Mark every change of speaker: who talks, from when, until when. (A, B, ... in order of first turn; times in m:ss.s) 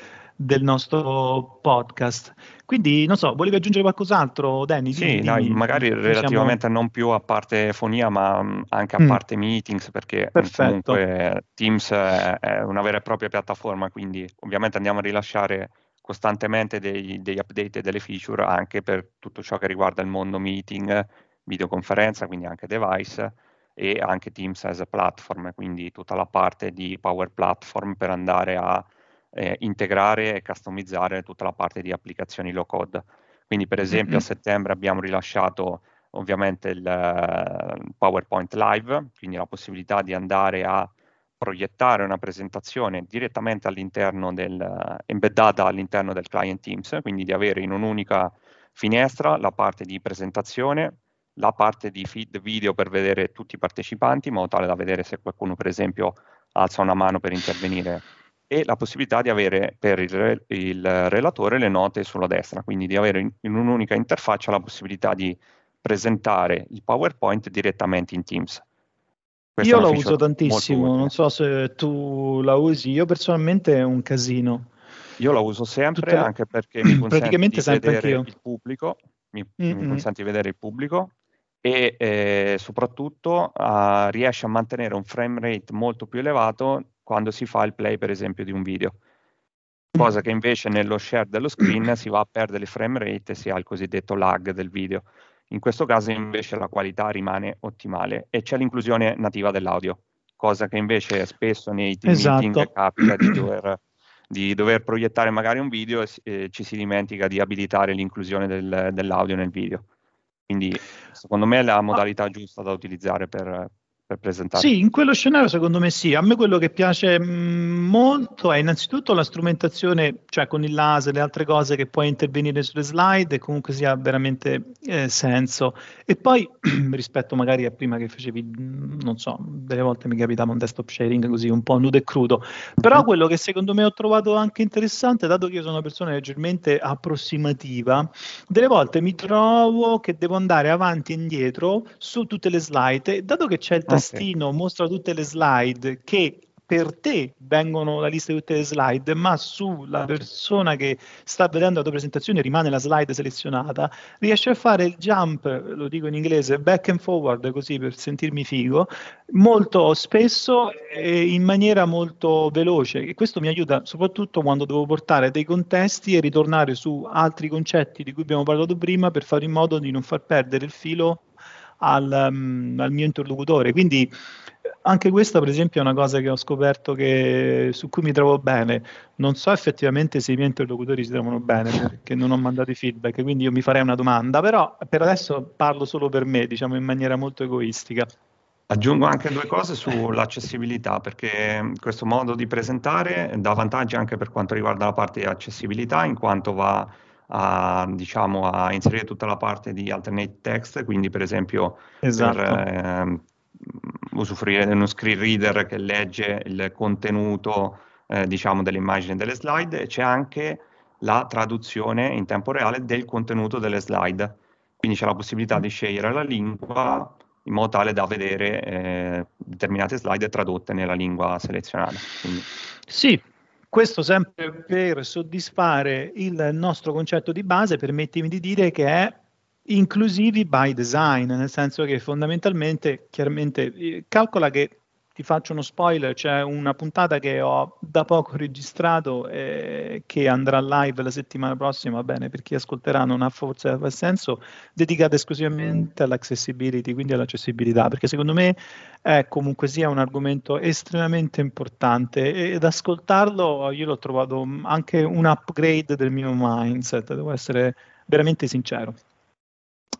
0:00.4-0:06.6 A
0:04.9-1:08.6 B
0:10.4-0:11.0 A
0:33.9-0:34.2 A
1:09.6-1:11.1 B
1:09.6-1:14.7 A
1:15.2-1:21.1 B
1:16.0-1:16.3 A
1:16.8-1:18.3 A
1:19.6-1:20.1 A
1:21.6-1:28.9 B
1:29.9-1:49.8 B
1:42.0-1:42.7 A
1:50.5-1:54.7 B
1:54.6-2:51.2 A
2:23.9-2:24.2 B
2:51.8-2:54.1 A
2:54.8-3:08.1 A
3:08.7-3:42.4 B
3:22.0-3:22.6 A
3:42.9-4:19.0 A